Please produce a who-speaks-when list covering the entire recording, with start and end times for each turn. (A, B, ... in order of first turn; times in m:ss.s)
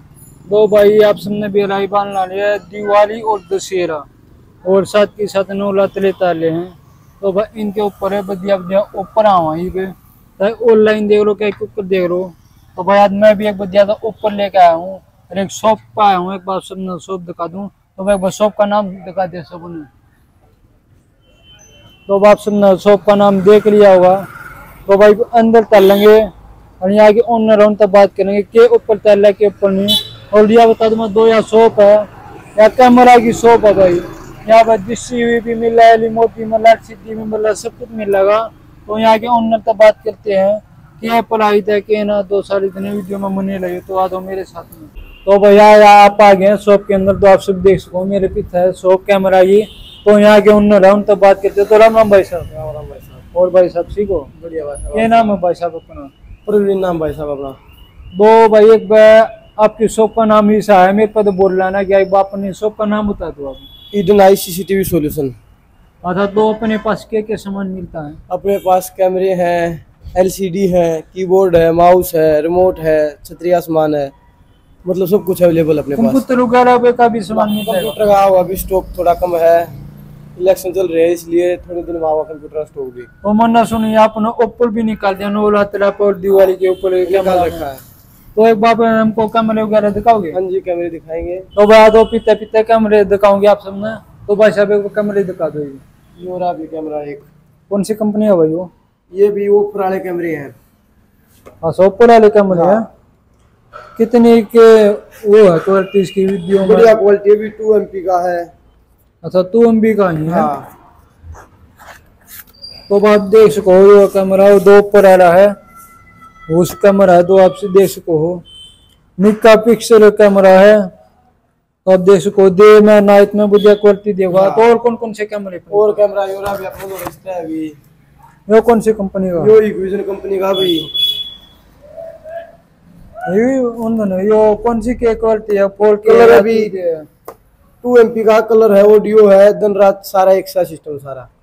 0:00.5-0:04.0 A
0:04.6-0:19.9 A
0:22.1-0:24.3 A
0:24.9-0:26.3 A
0:26.8-0:52.5 A
0:52.5-0:53.2 B
0:53.3-0:54.3 A
0:54.3-0:55.3 B
0:54.9-0:56.1 A
0:56.5-0:57.6 B
0:58.1-1:03.7 A
1:03.9-1:05.4 B
1:06.0-1:08.2 A
1:08.3-1:14.1 B
1:14.8-1:16.2 B
1:16.0-1:18.0 A
1:17.3-1:19.8 B
1:20.4-1:23.1 B
1:23.2-1:27.7 A
1:27.0-1:27.8 B
1:28.4-1:30.4 A
1:30.3-1:31.5 B
1:31.6-1:35.8 A
1:36.2-1:37.3 B
1:37.7-1:38.7 A
1:39.1-1:40.5 B
1:41.6-1:42.9 A
1:42.5-1:42.8 B
1:44.0-1:46.9 A
1:46.6-1:48.5 B
1:49.2-1:50.5 A
1:50.3-1:50.7 B
1:52.9-1:55.5 A
1:56.5-1:58.4 A
1:59.2-2:00.9 A
2:01.8-2:06.0 A
2:04.3-2:04.7 B
2:05.7-2:07.8 B
2:08.5-2:09.6 A
2:09.4-2:10.9 B
2:13.3-2:17.0 A
2:16.0-2:16.8 B
2:17.8-2:21.3 B